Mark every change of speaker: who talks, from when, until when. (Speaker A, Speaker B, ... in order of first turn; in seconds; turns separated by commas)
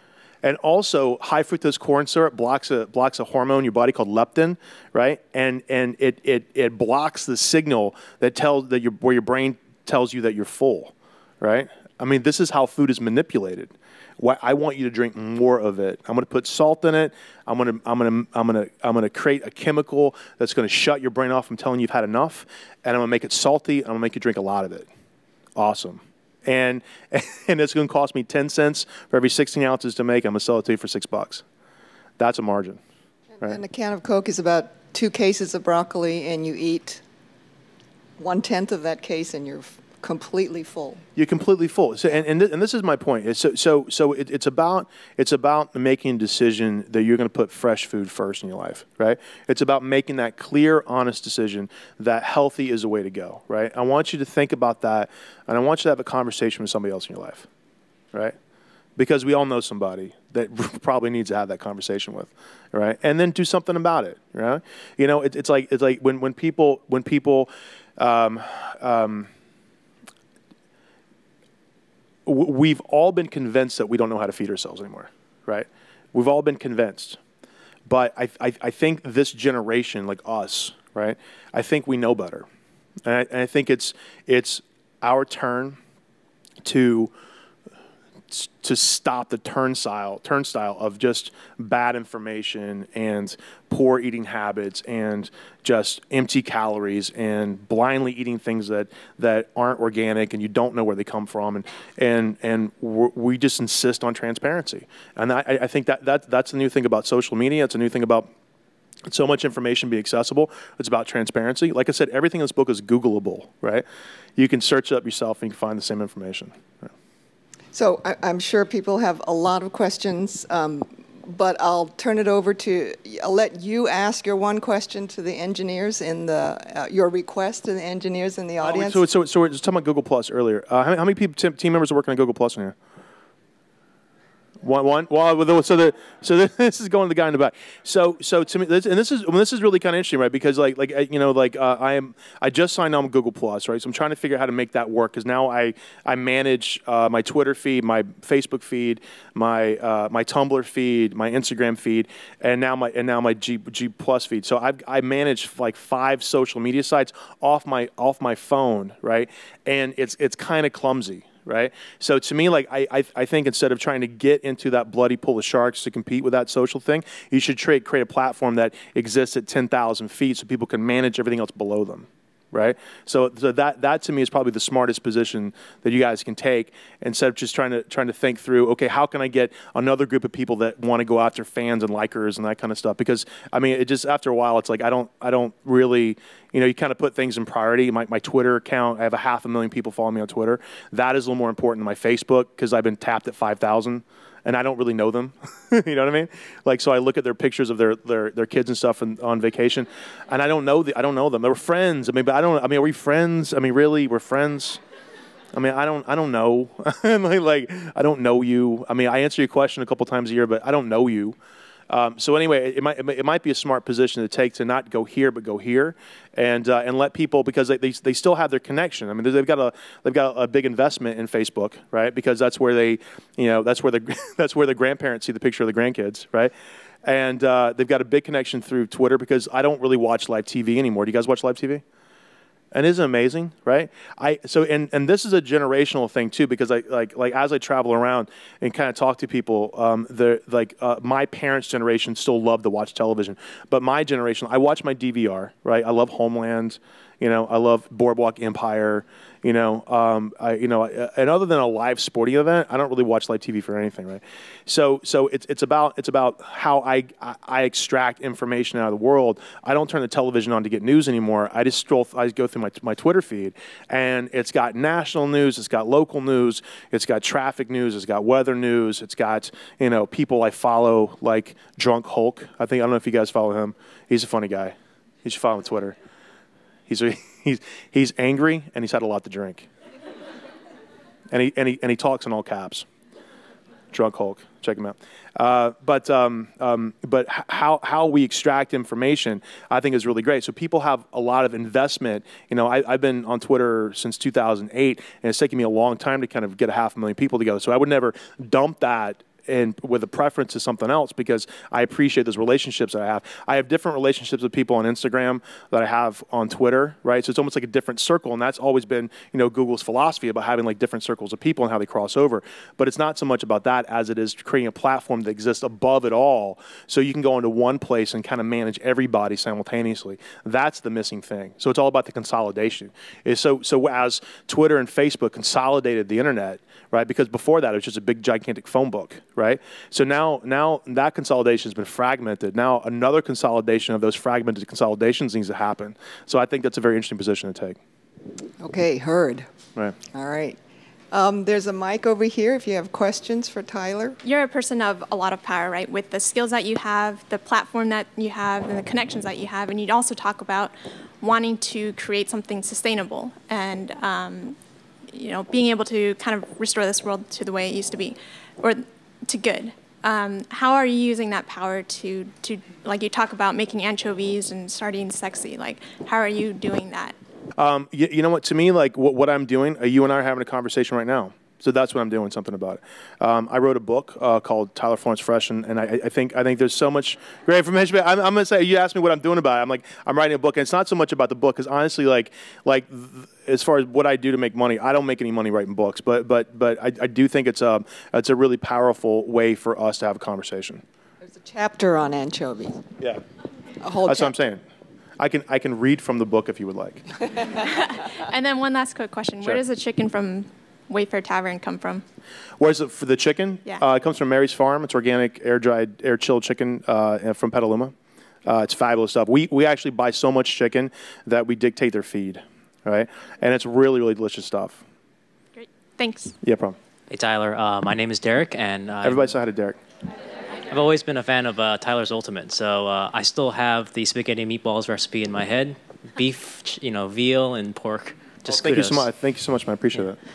Speaker A: 0.4-24.9, Speaker A: 25.6-31.4, Speaker A: 32.2-32.8, Speaker B: 33.4-37.0, Speaker B: 38.2-41.0, Speaker A: 41.1-57.5, Speaker A: 59.0-69.3, Speaker A: 72.2-77.2, Speaker A: 77.8-82.5, Speaker A: 83.0-85.8, Speaker A: 86.6-87.1, Speaker A: 88.3-108.3, Speaker A: 109.1-113.8, Speaker A: 114.4-116.9, Speaker B: 117.7-129.1, Speaker A: 128.6-132.7, Speaker A: 134.6-204.8, Speaker A: 205.5-211.3, Speaker A: 211.9-226.5, Speaker A: 227.0-231.8, Speaker A: 232.7-275.9, Speaker A: 276.9-279.7, Speaker A: 281.3-282.9, Speaker A: 283.9-337.8, Speaker B: 338.6-339.5, Speaker B: 340.0-340.6, Speaker B: 341.1-344.2, Speaker C: 344.2-354.6, Speaker C: 355.1-367.1, Speaker A: 367.6-390.8, Speaker B: 391.2-392.8, Speaker B: 393.8-394.4, Speaker A: 394.0-394.6, Speaker A: 395.2-397.1, Speaker C: 397.6-402.0, Speaker A: 402.6-407.9, Speaker A: 408.4-414.8, Speaker C: 415.5-416.3, Speaker A: 416.4-416.8, Speaker D: 417.1-419.3, Speaker A: 419.0-419.8, Speaker D: 420.7-429.1, Speaker A: 428.4-430.2